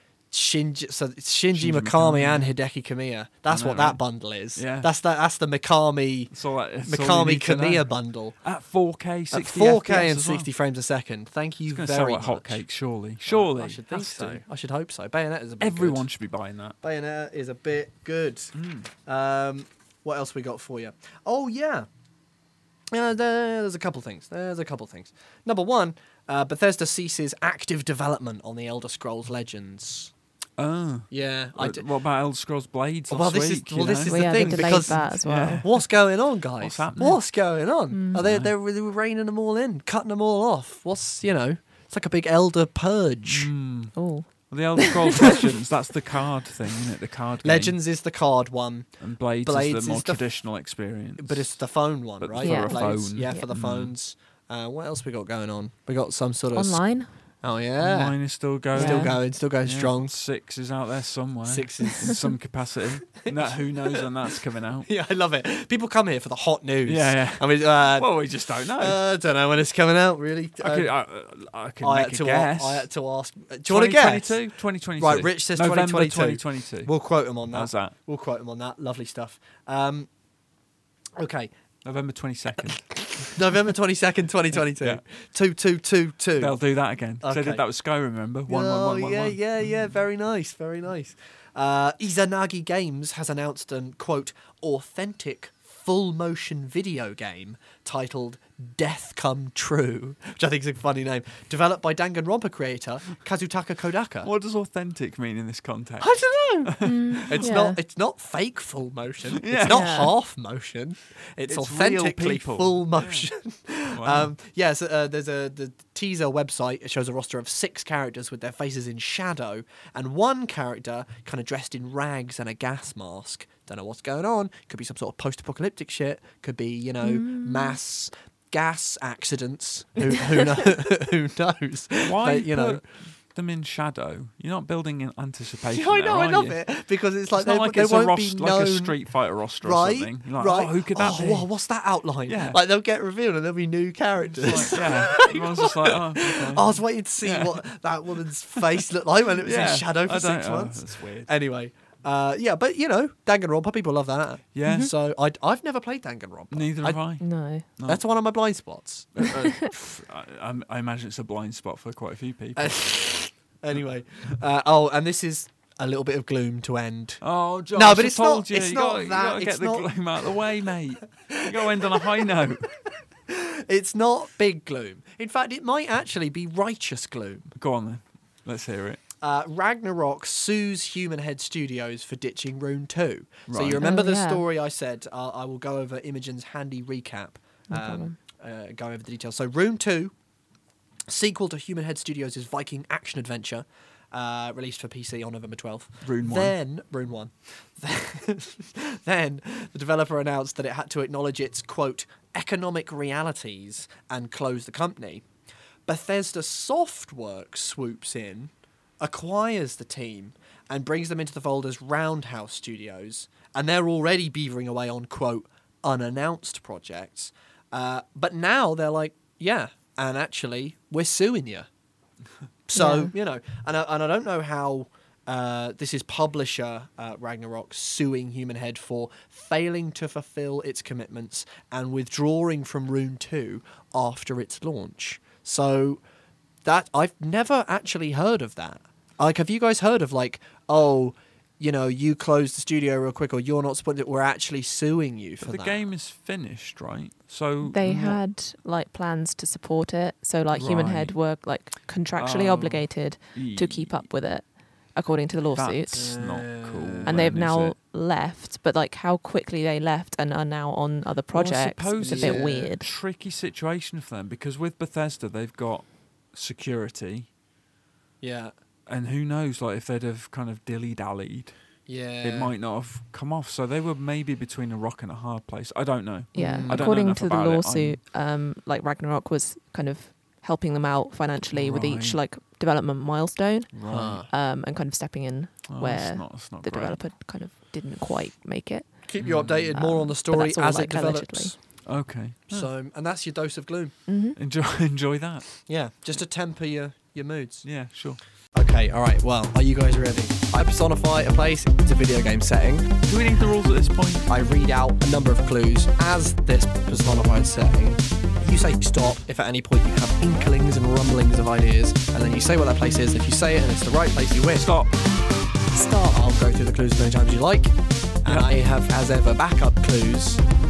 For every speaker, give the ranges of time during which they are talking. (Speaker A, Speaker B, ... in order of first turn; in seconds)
Speaker A: 0.3-6.3, 6.8-8.4, 9.3-12.6, 13.2-16.1, 16.8-18.5, 19.1-21.9, 22.9-30.1, 31.1-31.9, 33.1-43.5, 47.4-48.9, 49.4-50.2, 51.2-56.8, 57.4-58.1, 58.7-60.1, 61.5-62.3, 63.2-64.1, 64.8-70.9, 71.8-74.4, 75.0-80.1, 81.2-81.5, 83.1-86.6, 87.2-87.6, 88.5-104.3, 106.0-132.8, 135.7-139.0, 139.6-157.0, 157.8-159.7, 162.6-170.3, 171.3-172.3, 173.3-177.5, 179.2-190.1, 191.1-205.2, 205.8-221.7, 222.7-236.0, 236.6-245.8, 255.9-257.2, 262.0-262.7, 268.2-268.5, 271.9-272.5, 276.4-276.9, 283.9-284.3, 289.1-291.6, 292.5-293.9, 295.6-297.6, 298.5-302.9, 304.3-314.7, 315.7-320.4
Speaker B: 1.5-2.5, 3.5-4.0, 4.5-4.9, 6.3-10.5, 11.7-14.4, 15.6-16.8, 18.5-18.9, 30.6-36.0, 36.6-37.2, 38.1-38.5, 43.3-44.0, 44.5-47.8, 49.0-51.6, 52.2-53.9, 57.8-64.9, 66.8-69.0, 70.6-72.9, 73.7-76.9, 77.5-77.9, 81.8-83.4, 84.8-85.0, 86.4-89.4, 104.2-107.5, 109.4-110.1, 111.5-113.3, 113.9-114.3, 132.0-136.6, 137.3-141.5, 142.2-142.6, 144.2-147.6, 148.6-148.8, 149.4-151.3, 154.5-154.9, 156.5-157.2, 157.8-158.0, 159.2-162.8, 167.2-172.7, 177.5-179.0, 183.5-183.9, 196.0-196.5, 245.4-248.2, 250.5-251.1, 252.2-254.1, 255.5-257.7, 261.3-267.3, 268.9-271.5, 272.2-278.0, 281.5-282.2, 283.7-284.2, 285.7-287.0, 289.2-289.7, 291.8-292.7, 294.4-295.5, 297.6-298.2, 303.1-304.4, 314.5-314.9, 318.2-318.5
Speaker C: 34.0-35.6, 37.9-38.2, 43.9-45.5, 52.4-53.5, 56.5-57.1, 58.7-59.1, 106.8-107.8, 109.7-110.1, 127.0-127.8, 157.2-157.7, 183.8-184.4, 187.7-188.1, 222.7-223.1, 247.7-256.1, 257.1-262.9, 276.3-291.5, 294.1-294.4